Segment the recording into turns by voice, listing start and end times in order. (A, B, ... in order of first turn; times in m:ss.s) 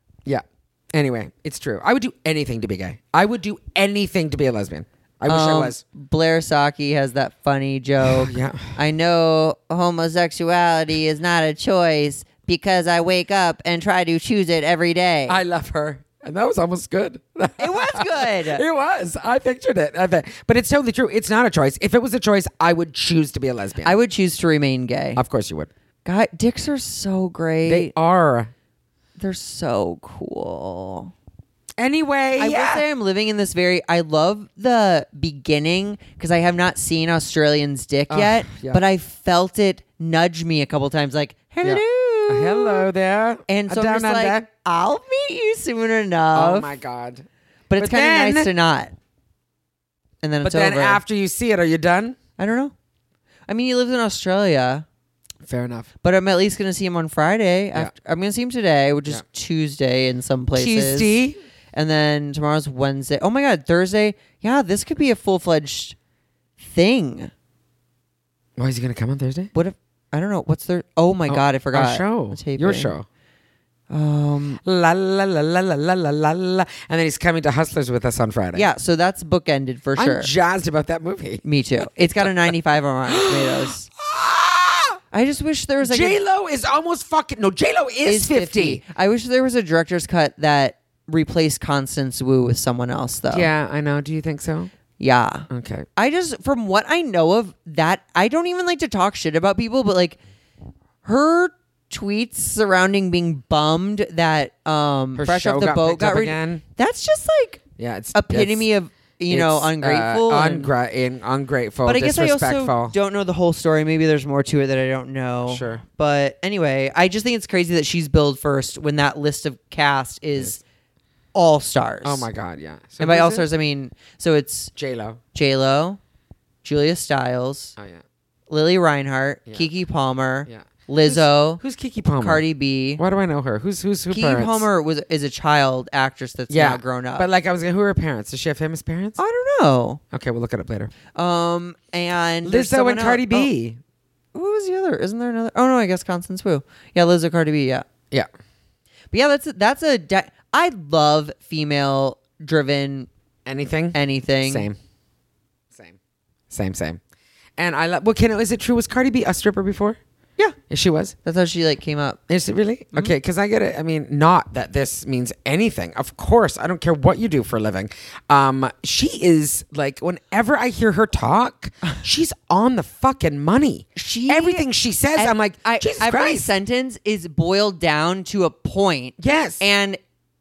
0:00.2-0:05.8 A
0:05.3-0:15.4 B
0:08.0-0:08.7 A
0:15.3-0:24.0 A
0:17.6-0:18.6 B
0:23.8-0:25.2 B
0:25.2-0:25.7 A
0:26.0-0:27.9 B
0:27.6-0:28.5 A
0:29.2-0:31.1 B
0:31.8-0:32.8 A
0:32.4-0:42.9 B
0:38.1-0:38.8 A
0:41.6-0:44.5 A
0:43.5-0:46.7 B
0:46.3-0:48.5 A
0:47.7-0:48.9 B
0:50.2-0:51.0 B
0:50.4-0:52.2 A
0:52.4-0:52.7 B
0:53.5-0:54.8 B
0:55.4-0:55.9 A
0:56.0-1:01.2 B
1:00.6-1:01.4 A
1:01.7-1:06.0 B
1:06.6-1:07.3 B
1:08.6-1:09.5 A
1:09.5-1:12.9 B
1:11.3-1:13.1 A
1:13.9-1:14.6 B
1:14.6-1:18.6 A
1:18.5-1:20.3 B
1:20.0-1:21.4 A
1:21.4-1:23.9 B
1:22.2-1:22.5 A
1:23.1-1:25.0 A
1:25.1-1:26.2 B
1:25.8-1:28.8 A
1:28.0-1:33.5 B
1:33.3-1:34.7 A
1:35.0-1:40.2 B
1:35.5-1:35.9 A
1:41.0-1:47.6 B
1:45.2-1:46.6 A
1:47.8-1:48.7 A
1:48.1-1:50.7 B
1:49.3-1:52.9 A
1:51.8-2:00.6 B
1:55.5-1:55.8 A
2:01.3-2:02.3 B
2:02.0-2:03.4 A
2:03.0-2:04.7 B
2:04.8-2:05.2 A
2:05.3-2:06.0 B
2:06.6-2:07.7 B
2:07.8-2:08.0 A
2:08.5-2:11.6 B
2:10.5-2:12.4 A
2:12.2-2:13.0 B
2:13.0-2:14.7 A
2:14.1-2:17.3 B
2:16.5-2:19.2 A
2:19.2-2:20.0 B
2:20.1-2:20.9 A
2:21.1-2:23.5 B
2:22.4-2:23.8 A
2:24.3-2:27.8 B
2:29.1-2:33.1 B
2:33.4-2:34.8 A
2:33.9-2:34.7 B
2:35.7-2:36.0 A
2:36.5-2:37.0 A
2:37.6-2:40.0 A
2:40.7-2:41.1 A
2:41.2-2:42.2 B
2:42.3-2:56.5 A
2:54.0-3:00.0 B
2:59.2-2:59.6 A